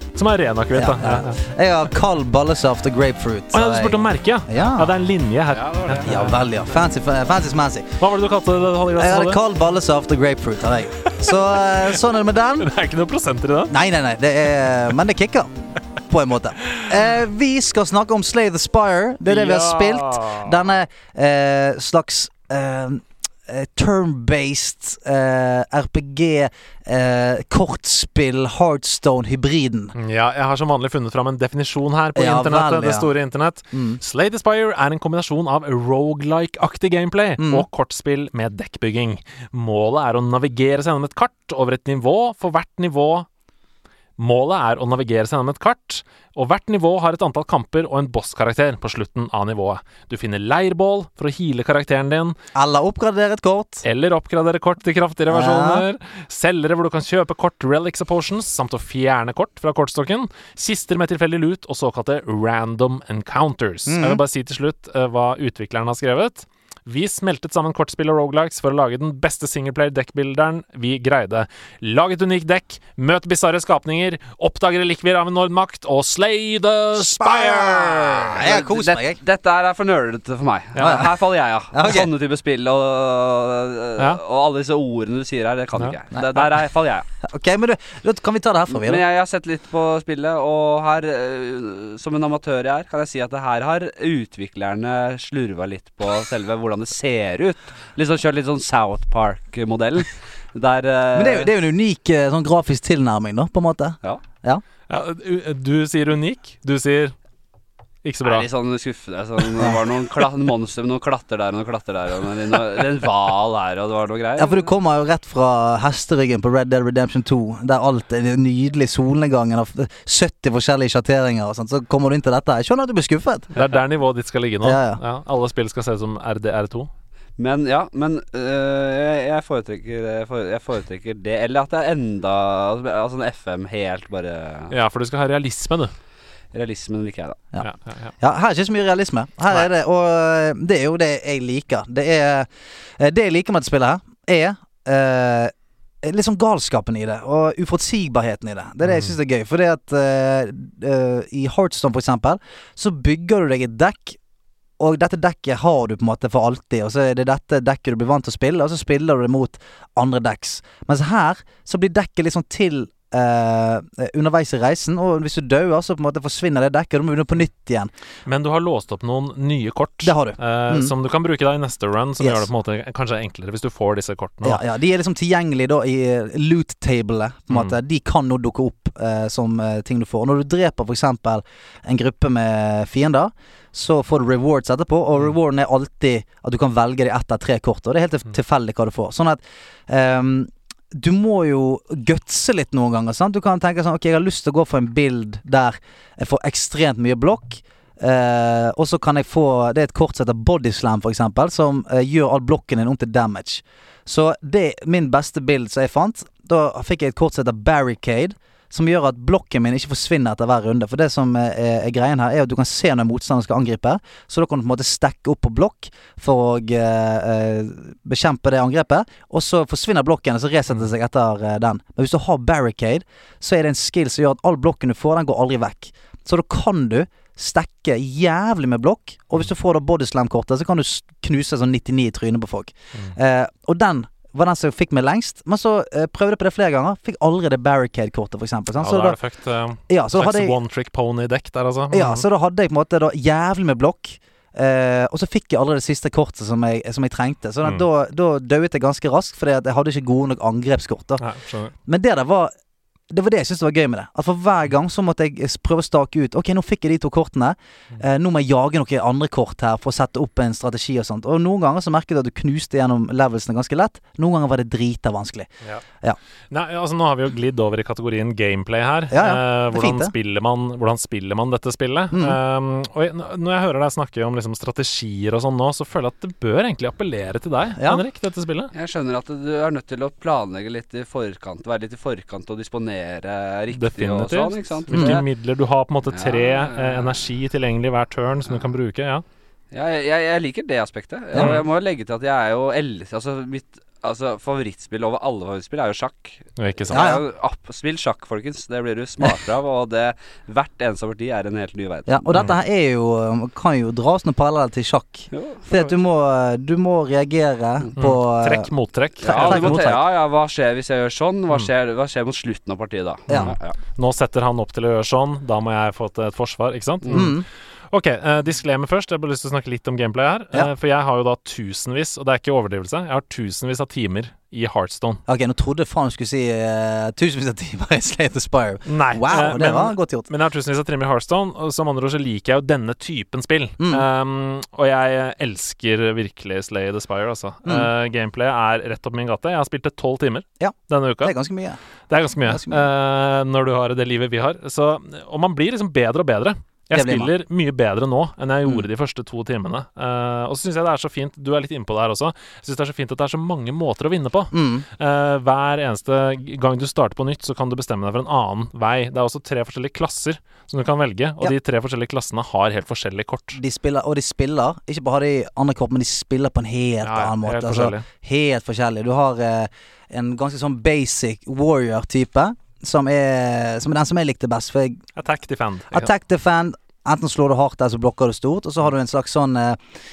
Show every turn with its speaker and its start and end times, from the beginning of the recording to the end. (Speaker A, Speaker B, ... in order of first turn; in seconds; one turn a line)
Speaker A: 0.1-1.4
Speaker B: 0.7-4.9
Speaker A: 3.5-6.4
Speaker C: 5.5-6.2
Speaker B: 6.0-7.9
Speaker A: 8.0-9.4
Speaker B: 9.0-12.7
Speaker A: 12.6-13.7
Speaker B: 13.7-15.5
Speaker B: 16.1-29.9
Speaker A: 19.2-20.6
Speaker A: 29.9-43.2
Speaker B: 32.1-33.1
Speaker B: 33.7-34.0
Speaker B: 37.4-37.6
Speaker A: 44.2-52.3
Speaker B: 52.5-53.8
Speaker A: 53.8-78.4
Speaker B: 55.3-55.8
Speaker B: 63.9-64.2
Speaker B: 77.0-79.2
Speaker C: 77.6-87.1
Speaker A: 80.8-81.0
Speaker B: 80.8-82.1
Speaker A: 85.8-86.5
Speaker B: 87.2-89.0
Speaker C: 88.7-101.5
Speaker B: 101.1-104.6
Speaker A: 104.9-107.1
Speaker A: 108.0-108.5
Speaker C: 108.2-114.6
Speaker B: 114.4-123.5
Speaker A: 123.5-126.9
Speaker B: 124.6-125.0
Speaker C: 127.4-134.7
Speaker A: 134.7-135.9
Speaker C: 136.5-137.4
Speaker A: 137.6-138.1
Speaker B: 138.2-154.2
Speaker A: 148.8-149.1
Speaker B: 154.8-167.9
Speaker A: 168.3-174.6
Speaker B: 170.0-170.9
Speaker B: 172.2-172.5
Speaker B: 174.4-239.2
Speaker A: 238.8-242.2
Speaker B: 239.9-240.5
Speaker B: 241.9-251.2
Speaker A: 251.2-251.7
Speaker B: 251.8-252.5
Speaker B: 253.1-265.5
Speaker A: 266.5-278.7
Speaker B: 269.1-270.1
Speaker B: 272.1-272.4
Speaker B: 277.8-278.0
Speaker C: 278.7-285.2
Speaker A: 283.7-289.2
Speaker B: 284.9-285.2
Speaker C: 286.1-287.2
Speaker C: 289.7-302.2
Speaker A: 291.3-291.6
Speaker A: 296.6-297.1
Speaker B: 296.9-297.2
Speaker B: 302.1-308.7
Speaker C: 305.3-305.7
Speaker A: 308.0-309.9
Speaker B: 309.2-310.0
Speaker C: 309.2-313.8
Speaker A: 313.3-317.4
Speaker C: 317.0-317.3
Speaker B: 317.1-317.4
Speaker A: 317.9-325.2
Speaker B: 325.3-330.3
Speaker A: 328.9-341.3
Speaker B: 333.8-334.1
Speaker B: 337.6-337.9
Speaker B: 340.6-341.8
Speaker A: 342.1-363.6
Speaker B: 342.4-342.9
Speaker B: 346.9-347.3
Speaker B: 354.5-354.9
Speaker B: 363.5-375.0
Speaker A: 367.0-368.0
Speaker A: 375.2-376.1
Speaker B: 375.9-379.8